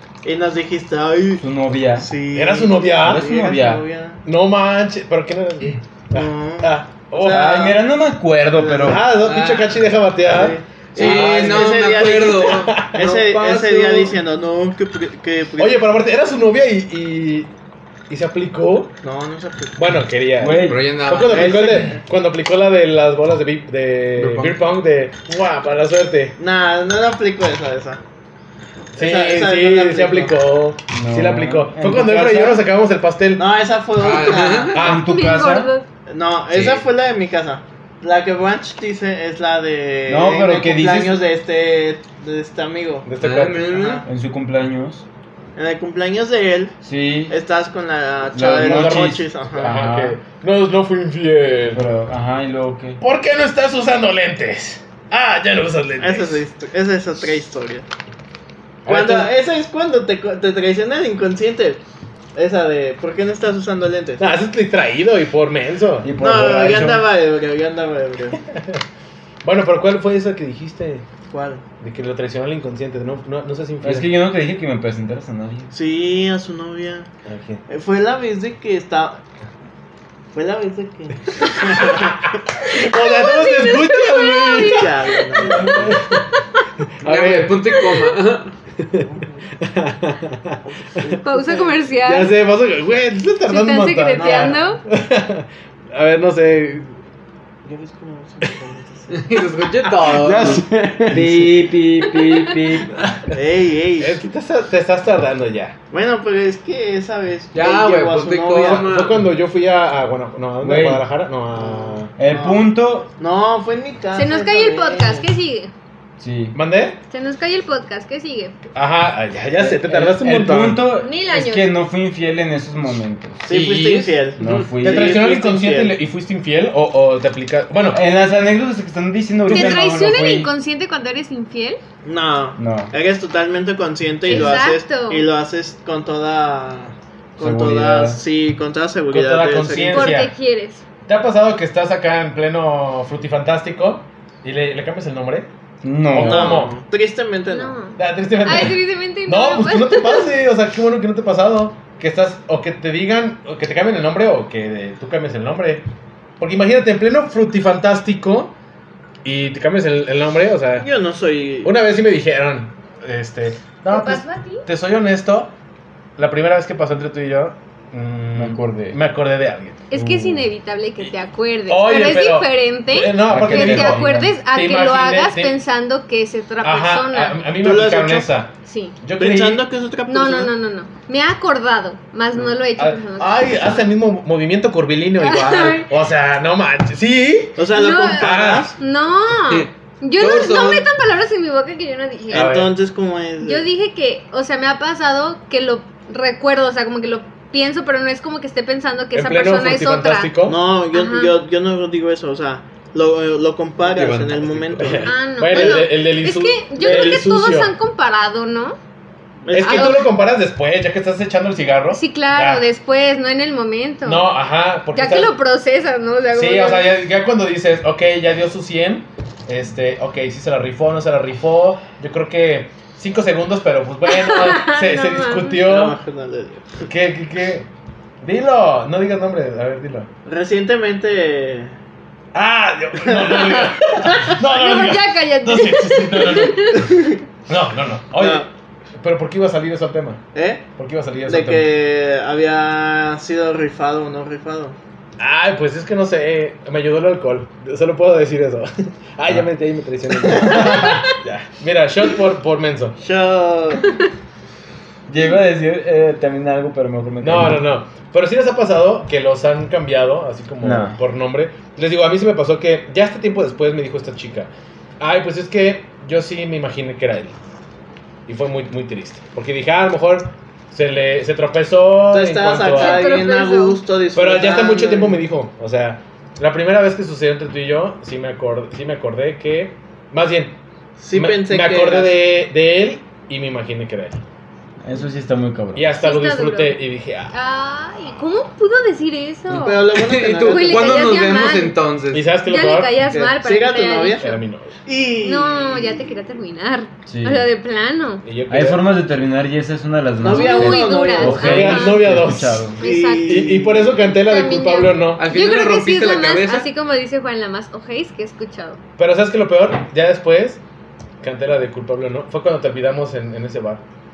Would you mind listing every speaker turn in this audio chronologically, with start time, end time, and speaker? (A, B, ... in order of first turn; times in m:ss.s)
0:00.2-0:04.2 A
0:01.4-0:02.1 B
0:02.3-0:03.3 C
0:03.0-0:03.8 B
0:04.2-0:07.7 C
0:06.1-0:07.8 A
0:07.2-0:09.0 B
0:08.5-0:09.1 A
0:08.8-0:13.1 C
0:09.2-0:09.9 D
0:10.2-0:15.8 A
0:11.0-0:14.2 D
0:15.6-0:17.5 C
0:18.1-0:19.0 C
0:19.0-0:19.8 A
0:19.8-0:26.4 C
0:20.4-0:21.8 B
0:20.4-0:21.9 D
0:21.6-0:21.8 A
0:24.2-0:24.6 D
0:26.4-0:28.0 A
0:29.0-0:33.4 C
0:29.0-0:30.4 A
0:30.9-0:32.6 B
0:33.4-0:34.8 A
0:34.0-0:34.9 D
0:34.7-0:35.1 C
0:34.8-0:35.7 B
0:34.9-0:35.9 E
0:36.1-0:43.1 A
0:36.5-0:36.8 D
0:40.1-0:41.2 B
0:43.0-0:44.0 C
0:43.2-0:44.0 D
0:43.6-0:44.0 A
0:44.0-0:45.0 B
0:45.6-0:46.8 A
0:46.8-0:47.4 B
0:47.3-0:49.8 A
0:48.3-0:50.2 B
0:48.4-0:51.9 C
0:51.7-0:53.0 B
0:53.0-0:56.4 C
0:56.0-0:57.9 A
0:58.8-0:59.3 C
0:58.9-1:01.8 A
1:02.4-1:04.2 A
1:04.2-1:06.1 C
1:06.0-1:07.1 B
1:06.2-1:08.4 A
1:09.4-1:11.0 C
1:11.3-1:11.6 A
1:11.8-1:14.1 C
1:13.8-1:15.7 B
1:15.7-1:17.1 A
1:17.3-1:17.6 C
1:17.7-1:19.2 A
1:20.3-1:22.3 A
1:21.6-1:26.3 C
1:22.8-1:25.6 E
1:24.5-1:26.0 A
1:26.9-1:27.9 C
1:27.0-1:28.6 D
1:28.8-1:29.1 C
1:29.0-1:29.5 A
1:29.6-1:31.1 C
1:30.6-1:31.8 A
1:31.2-1:32.4 E
1:32.0-1:36.9 C
1:33.5-1:34.8 E
1:34.2-1:34.6 A
1:37.6-1:39.5 A
1:39.1-1:40.7 D
1:40.0-1:41.5 C
1:40.1-1:43.0 B
1:42.1-1:42.6 E
1:43.0-1:43.4 C
1:43.3-1:44.2 A
1:44.0-1:45.8 C
1:45.9-1:48.9 A
1:47.5-1:49.3 D
1:48.6-1:52.1 C
1:50.6-1:51.1 B
1:51.6-1:55.3 A
1:52.2-1:53.1 B
1:54.1-1:55.7 E
1:56.2-1:56.6 B
1:56.5-1:57.0 C
1:57.1-1:58.6 E
1:58.8-2:00.9 C
1:59.6-2:03.4 B
2:01.0-2:01.7 E
2:03.5-2:06.0 A
2:03.5-2:04.7 D
2:04.4-2:05.2 B
2:04.8-2:08.0 C
2:07.9-2:10.5 B
2:09.5-2:11.8 E
2:12.0-2:20.2 A
2:12.6-2:12.9 B
2:14.3-2:15.3 E
2:14.3-2:14.6 B
2:17.4-2:18.2 B
2:19.1-2:20.3 C
2:19.9-2:20.8 E
2:21.1-2:25.5 C
2:25.8-2:26.7 B
2:26.1-2:26.8 C
2:26.2-2:27.8 A
2:27.5-2:30.3 E
2:28.0-2:35.8 C
2:36.4-2:38.5 C
2:39.2-2:40.9 C
2:40.8-2:41.8 A
2:41.6-2:45.5 C
2:43.9-2:44.7 E
2:46.2-2:49.8 C
2:48.4-2:49.0 B
2:49.9-2:57.4 E
2:49.9-2:50.5 B
2:51.7-2:55.6 C
2:53.3-2:54.3 B
2:56.6-2:59.7 C
2:57.6-2:58.3 A
2:58.7-2:59.0 E
2:59.2-3:00.5 A
3:00.1-3:03.8 E
3:02.8-3:08.7 C
3:05.2-3:05.9 E
3:07.6-3:08.8 A
3:07.7-3:12.6 E
3:09.5-3:10.9 D
3:12.3-3:12.8 C
3:12.3-3:13.7 A
3:13.4-3:20.4 E
3:19.1-3:20.6 C
3:20.4-3:25.9 A
3:20.9-3:21.4 E
3:23.9-3:25.1 D
3:24.8-3:27.7 C
3:25.1-3:28.8 E
3:29.5-3:30.1 A
3:29.5-3:32.6 C
3:29.6-3:30.1 E
3:31.9-3:34.3 E
3:34.0-3:35.4 C
3:34.9-3:37.0 E
3:36.3-3:46.0 C
3:44.1-3:45.6 E
3:45.5-3:46.6 A
3:46.8-3:47.7 C
3:48.2-3:50.1 C
3:50.3-3:51.8 A
3:52.3-3:56.8 C
3:53.0-3:53.8 A
3:54.1-3:57.1 E
3:56.8-3:57.2 A
3:57.5-3:58.5 C
3:58.2-3:58.5 A
3:59.0-4:00.2 C
4:00.3-4:00.7 A
4:00.8-4:01.6 C
4:01.3-4:04.8 A
4:05.2-4:13.0 C
4:10.3-4:10.8 A
4:10.5-4:11.0 E
4:13.0-4:14.0 A
4:15.1-4:17.6 B
4:17.2-4:27.4 C
4:20.6-4:21.0 B
4:28.3-4:33.3 C
4:32.1-4:35.2 A
4:32.7-4:33.8 E
4:34.1-4:40.6 C
4:41.0-4:42.2 A
4:41.1-4:44.2 C
4:44.8-4:45.9 B
4:45.8-4:47.3 C
4:46.0-4:46.8 E
4:47.3-4:51.8 E
4:49.5-4:52.3 D
4:49.5-4:51.4 A
4:52.1-4:53.0 C
4:52.4-4:54.4 E
4:53.1-4:54.2 A
4:54.2-4:54.7 C
4:54.8-4:56.1 A
4:55.2-4:58.2 E
4:57.1-4:57.5 B
4:58.2-4:58.9 C
4:58.5-5:02.8 B
5:00.2-5:01.6 A
5:00.2-5:02.1 E
5:01.2-5:02.7 C
5:02.8-5:04.0 A
5:02.8-5:03.5 E
5:03.2-5:05.3 C
5:04.1-5:08.8 E
5:05.2-5:06.7 D
5:09.0-5:10.6 C
5:11.2-5:13.8 C